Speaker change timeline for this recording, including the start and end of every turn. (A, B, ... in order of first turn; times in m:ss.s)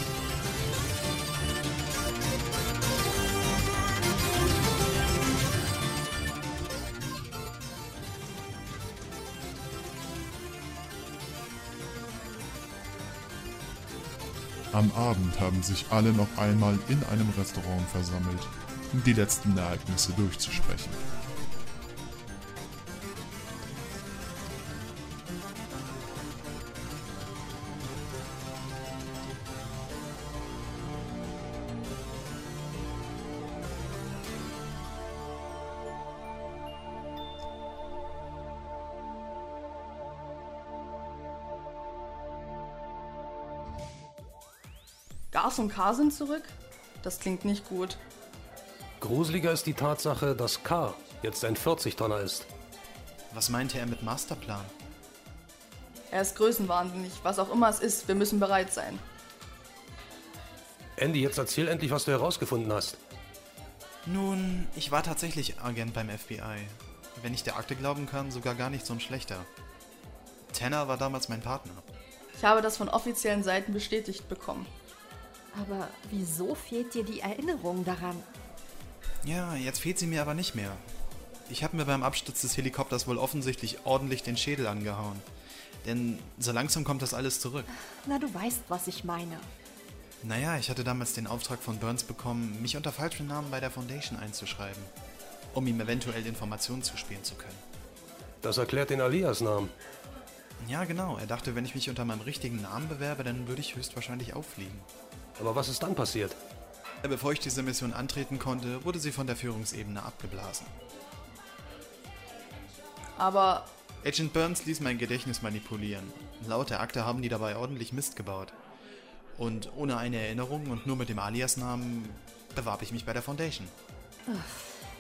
0:14.7-0:21.0 A
0:45.3-0:48.0 B
0:49.0-0:52.5 C
0:53.3-0:54.7 D
0:56.1-0:59.0 B
1:01.0-1:03.0 C
1:04.0-1:09.5 D
1:10.5-1:11.9 D
1:12.4-1:14.7 B
1:15.5-1:18.3 E
1:19.2-1:20.8 D
1:21.5-1:25.2 D
1:25.8-1:27.7 D
1:28.0-1:29.5 E
1:30.2-1:34.9 D
1:35.5-1:37.6 D
1:38.4-1:39.7 C
1:40.6-1:44.9 D
1:45.4-1:46.4 C
1:47.0-1:50.7 D
1:53.2-1:53.7 B
1:54.0-1:58.6 D
1:59.4-2:03.7 D
2:04.3-2:04.7 E